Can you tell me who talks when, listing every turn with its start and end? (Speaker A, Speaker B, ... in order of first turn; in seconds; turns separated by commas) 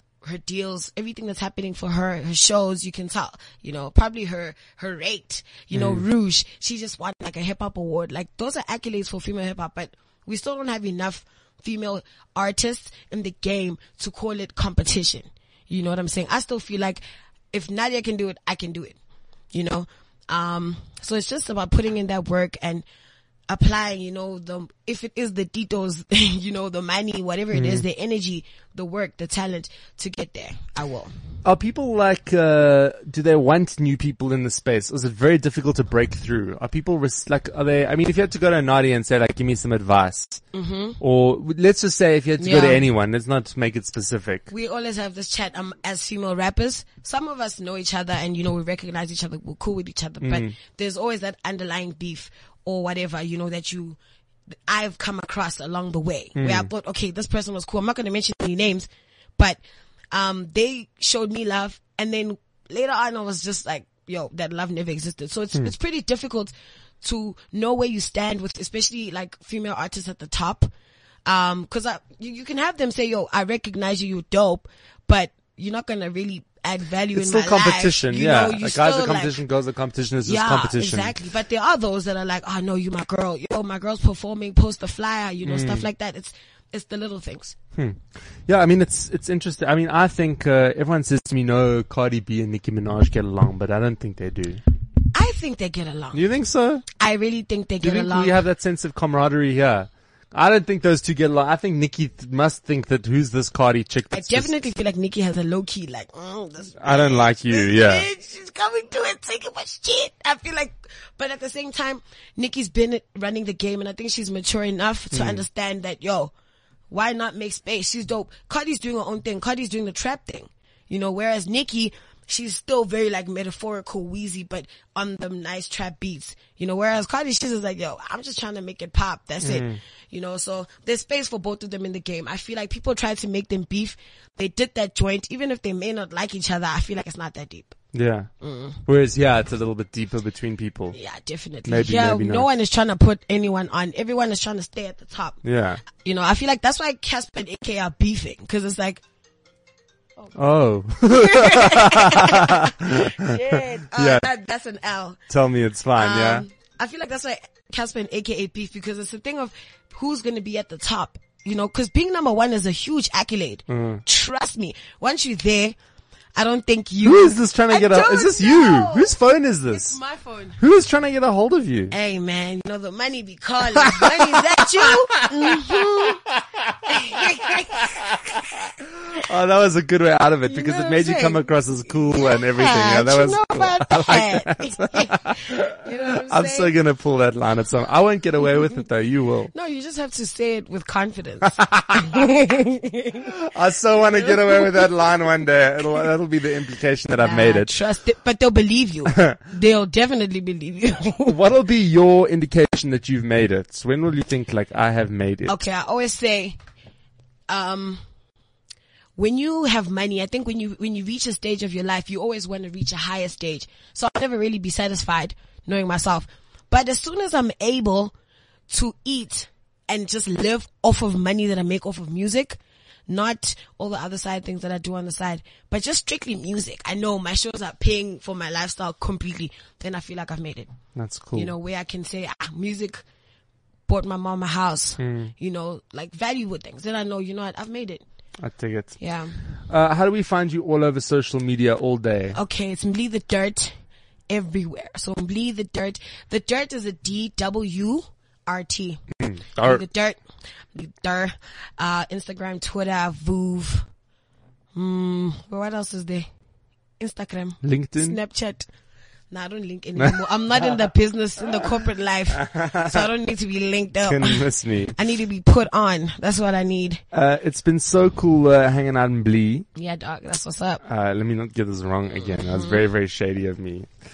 Speaker A: 0.2-19.0, Speaker B: 5.7-6.0, Speaker A: 19.5-22.9, Speaker A: 23.5-31.1, Speaker B: 27.5-27.9, Speaker B: 31.4-40.4, Speaker A: 40.5-41.0, Speaker B: 41.0-44.5, Speaker A: 42.4-42.8, Speaker A: 44.5-54.0, Speaker B: 50.2-50.5, Speaker A: 54.7-59.6, Speaker B: 56.4-56.7, Speaker A: 60.1-70.7, Speaker A: 71.3-79.4, Speaker B: 77.1-81.2, Speaker A: 80.2-87.5, Speaker B: 85.5-85.9, Speaker B: 87.8-94.6, Speaker A: 95.1-96.2, Speaker B: 96.1-96.8, Speaker A: 97.0-98.4, Speaker B: 97.8-104.7, Speaker A: 104.1-116.3, Speaker B: 106.8-108.1, Speaker B: 115.1-115.5, Speaker A: 116.9-137.8, Speaker B: 129.4-129.8, Speaker B: 137.9-138.3, Speaker A: 138.4-138.8, Speaker B: 138.9-141.0, Speaker A: 140.9-145.4, Speaker B: 141.7-142.5, Speaker B: 145.4-145.8, Speaker A: 146.0-149.0, Speaker B: 150.3-154.3, Speaker A: 151.1-155.2, Speaker B: 155.3-156.5, Speaker A: 156.0-165.8, Speaker B: 163.7-164.0, Speaker A: 166.4-169.2, Speaker B: 167.0-170.0, Speaker A: 169.7-170.6, Speaker B: 170.6-171.9, Speaker A: 171.9-176.2, Speaker B: 173.6-189.5, Speaker A: 176.9-177.8, Speaker A: 180.5-181.5, Speaker A: 182.1-186.7, Speaker A: 189.5-193.2, Speaker B: 191.6-192.2, Speaker B: 193.2-197.8, Speaker A: 197.2-201.3, Speaker B: 199.1-199.4, Speaker B: 201.3-205.6, Speaker A: 205.5-206.6, Speaker A: 207.5-208.0, Speaker A: 209.2-218.1, Speaker A: 218.7-230.7, Speaker B: 230.9-231.5, Speaker A: 231.3-233.0, Speaker A: 233.9-238.0, Speaker B: 235.0-235.3, Speaker B: 238.4-239.0, Speaker A: 239.0-239.4, Speaker B: 239.7-242.4, Speaker A: 242.3-243.8, Speaker A: 244.3-249.0, Speaker B: 249.2-249.8, Speaker A: 249.6-250.2, Speaker A: 250.7-253.9, Speaker A: 254.8-256.3, Speaker A: 257.0-258.7, Speaker B: 257.6-258.2, Speaker A: 259.3-264.4, Speaker B: 260.0-260.8, Speaker B: 262.3-263.1, Speaker B: 264.0-265.0, Speaker A: 265.0-267.0, Speaker B: 267.1-269.6, Speaker A: 269.8-270.8, Speaker B: 270.8-273.9, Speaker A: 272.5-272.8